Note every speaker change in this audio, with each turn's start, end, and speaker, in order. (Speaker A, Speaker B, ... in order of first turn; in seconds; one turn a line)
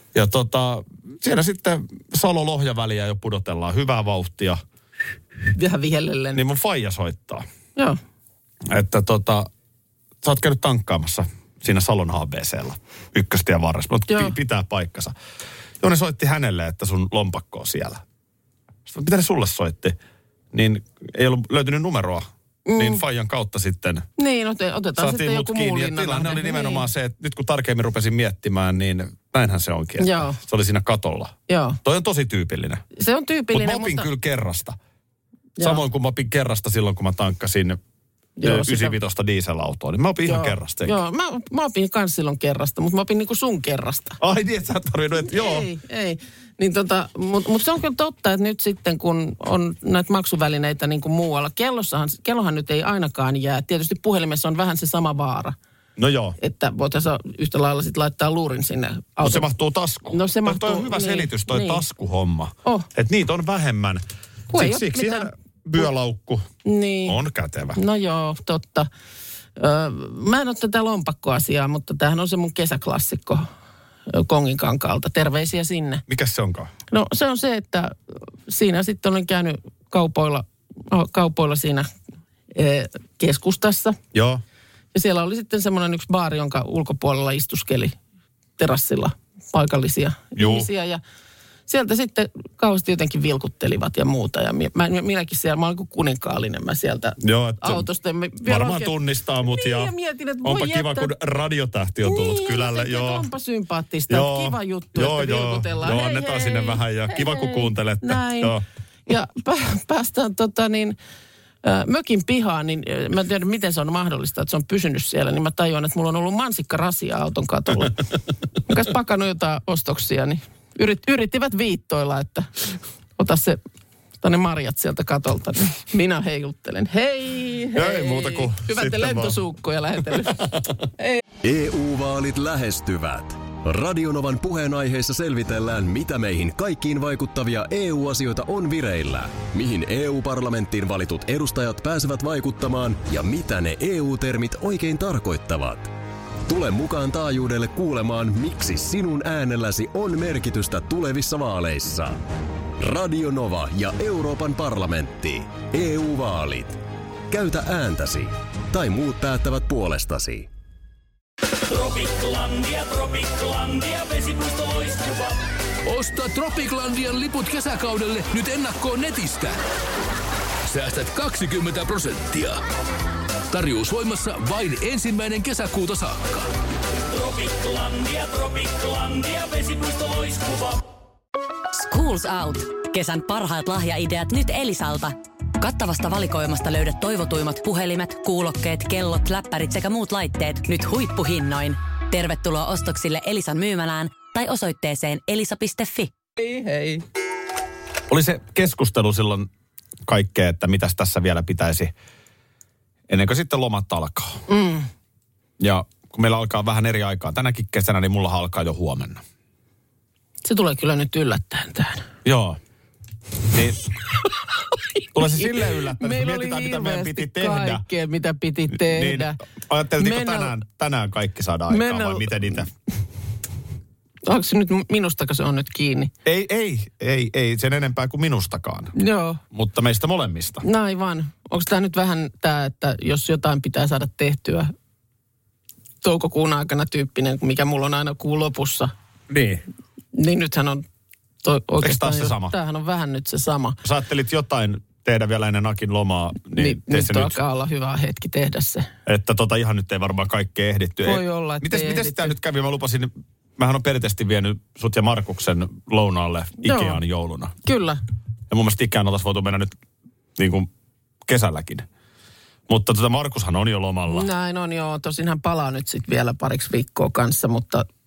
Speaker A: 0.1-4.6
Speaker B: 5.5-6.4
Speaker A: 6.3-7.4
Speaker A: 8.7-9.5
Speaker A: 10.2-15.1
Speaker B: 14.1-14.4
Speaker A: 15.8-18.0
Speaker A: 18.9-20.0
Speaker A: 20.5-24.1
Speaker B: 22.7-23.0
Speaker B: 24.2-26.9
Speaker A: 25.0-32.8
Speaker B: 30.0-30.4
Speaker B: 31.5-31.8
Speaker B: 33.0-34.1
Speaker A: 33.5-34.8
Speaker B: 35.6-35.8
Speaker A: 35.6-37.8
Speaker B: 38.4-39.0
Speaker A: 38.4-41.0
Speaker B: 40.3-44.2
Speaker A: 44.2-45.7
Speaker B: 45.3-55.6
Speaker A: 56.0-56.4
Speaker B: 56.4-59.5
Speaker A: 59.2-66.5
Speaker B: 60.1-61.8
Speaker B: 64.5-65.3
Speaker B: 66.7-67.2
Speaker A: 67.1-67.8
Speaker B: 67.8-68.9
Speaker B: 69.6-73.5
Speaker B: 74.1-76.0
Speaker A: 76.1-76.7
Speaker B: 76.9-78.0
Speaker B: 78.5-81.9
Speaker B: 82.5-84.0
Speaker A: 84.1-84.4
Speaker B: 84.9-88.0
Speaker B: 88.6-91.0
Speaker A: 90.4-90.7
Speaker B: 91.7-101.1
Speaker A: 97.2-97.9
Speaker A: 98.5-99.9
Speaker A: 100.4-103.3
Speaker B: 102.0-108.5
Speaker A: 104.1-108.6
Speaker B: 109.1-111.0
Speaker B: 111.6-118.0
Speaker B: 118.7-122.5
Speaker B: 123.2-123.6
Speaker B: 124.2-131.2
Speaker A: 127.8-129.4
Speaker A: 130.1-130.5
Speaker C: 131.4-145.9
Speaker C: 146.5-152.2
Speaker C: 152.8-156.8
Speaker C: 157.3-160.5
Speaker D: 161.7-169.6
Speaker D: 170.7-172.6
Speaker D: 173.5-176.4
Speaker D: 177.1-180.8
Speaker E: 181.7-196.1
Speaker B: 196.4-197.0
Speaker A: 198.1-199.5
Speaker A: 200.1-201.9
Speaker A: 203.1-204.4
Speaker B: 204.5-204.9
Speaker A: 205.6-209.2
Speaker B: 210.4-212.1
Speaker A: 212.2-212.6
Speaker A: 213.5-213.8
Speaker A: 215.1-217.8
Speaker B: 215.2-219.4
Speaker A: 218.7-222.7
Speaker B: 220.0-220.6
Speaker B: 221.7-222.5
Speaker B: 224.2-226.1
Speaker A: 226.2-228.9
Speaker B: 228.9-229.4
Speaker A: 229.5-230.6
Speaker B: 230.6-234.7
Speaker B: 236.0-238.9
Speaker A: 239.3-239.6
Speaker B: 240.1-240.8
Speaker B: 241.4-243.8
Speaker A: 241.8-242.5
Speaker A: 243.8-247.4
Speaker B: 246.5-248.9
Speaker A: 249.1-257.6
Speaker B: 251.0-252.4
Speaker B: 256.6-257.0
Speaker B: 257.6-258.0
Speaker A: 258.5-259.7
Speaker A: 260.4-260.7
Speaker A: 261.2-261.9
Speaker A: 262.7-264.3
Speaker B: 264.1-267.9